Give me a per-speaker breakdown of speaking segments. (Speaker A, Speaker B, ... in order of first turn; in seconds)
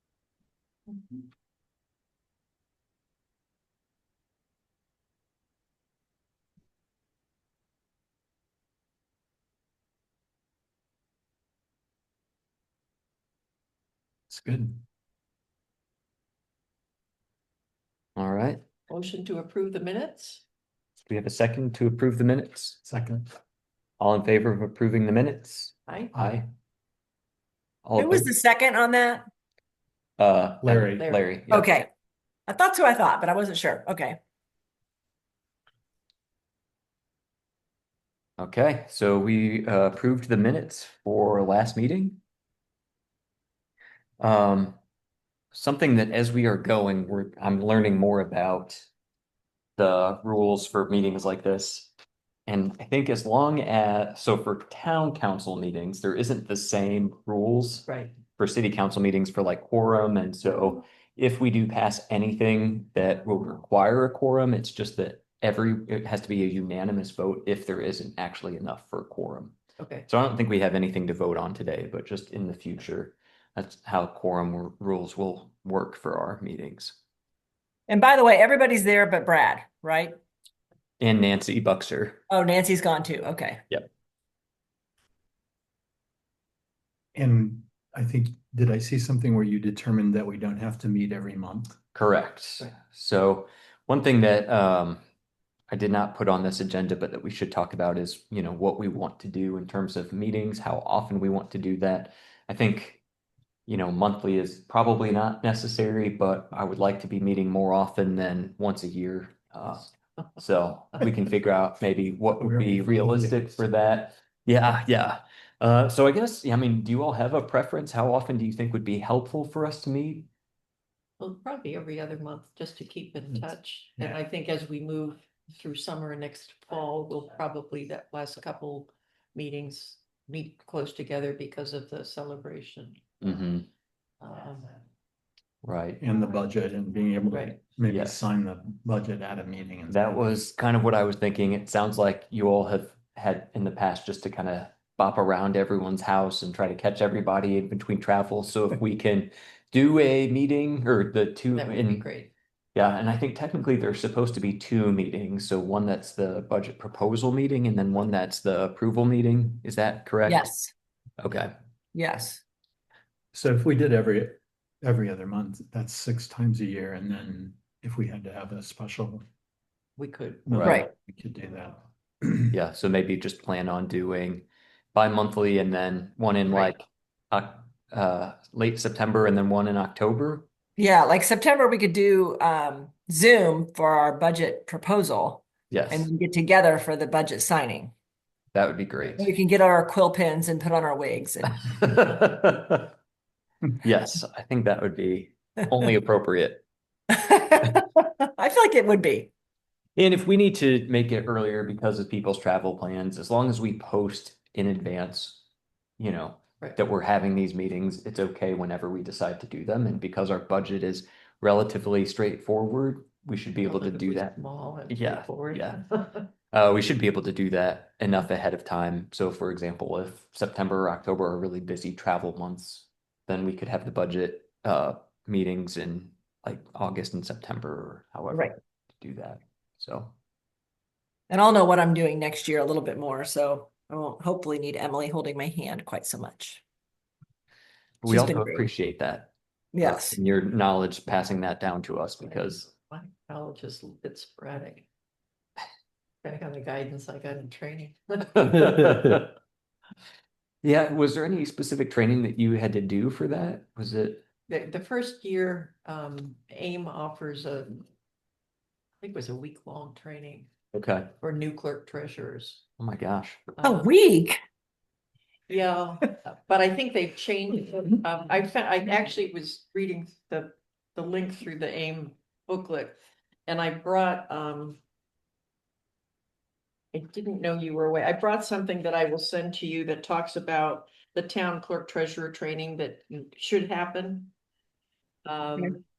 Speaker A: 14.3-14.8, 22.8-23.3, 26.1-26.4, 30.6-31.2, 87.1-91.7, 112.4-113.6, 136.0-140.2, 163.3-169.2, 170.4-172.5
Speaker B: 18.1-18.6, 21.1-22.8, 24.0-26.5, 27.8-28.3, 30.2-31.7, 38.4-42.2, 44.2-44.8, 45.5-48.9, 49.8-51.9, 52.5-69.5, 70.1-77.0, 81.0-82.2, 91.9-95.0, 95.7-103.0, 103.7-120.3, 133.2-133.7, 135.6-136.0, 137.9-138.2, 139.9-152.1, 152.7-160.5, 161.2-161.5, 170.5-170.8, 172.5-180.5, 185.7-186.1, 188.5-189.3, 191.7-192.9, 193.8-196.6, 199.9-205.4, 206.0-214.3, 214.9-215.8, 216.5-230.1, 238.0-242.7, 248.3-249.3, 250.6-254.2, 260.7-261.1, 262.8-263.5
Speaker C: 18.9-20.4, 57.9-58.1, 69.8-70.1, 121.2-133.2, 134.2-134.8, 137.3-137.6, 151.5-152.3, 170.0-170.5, 176.5-176.7, 213.6-216.3, 242.2-244.9, 246.2-248.7, 254.5-257.9, 259.0-260.5, 261.2-262.6, 263.6-263.9, 265.5-274.8, 276.9-284.3, 285.2-285.8
Speaker D: 28.0-29.2, 31.5-31.9, 32.5-34.2, 77.9-80.2, 82.3-83.6, 160.2-160.7, 161.9-162.4, 180.8-187.9, 189.2-191.6, 197.1-199.3, 231.3-236.6, 238.1-238.7, 239.7-240.2, 263.6-264.4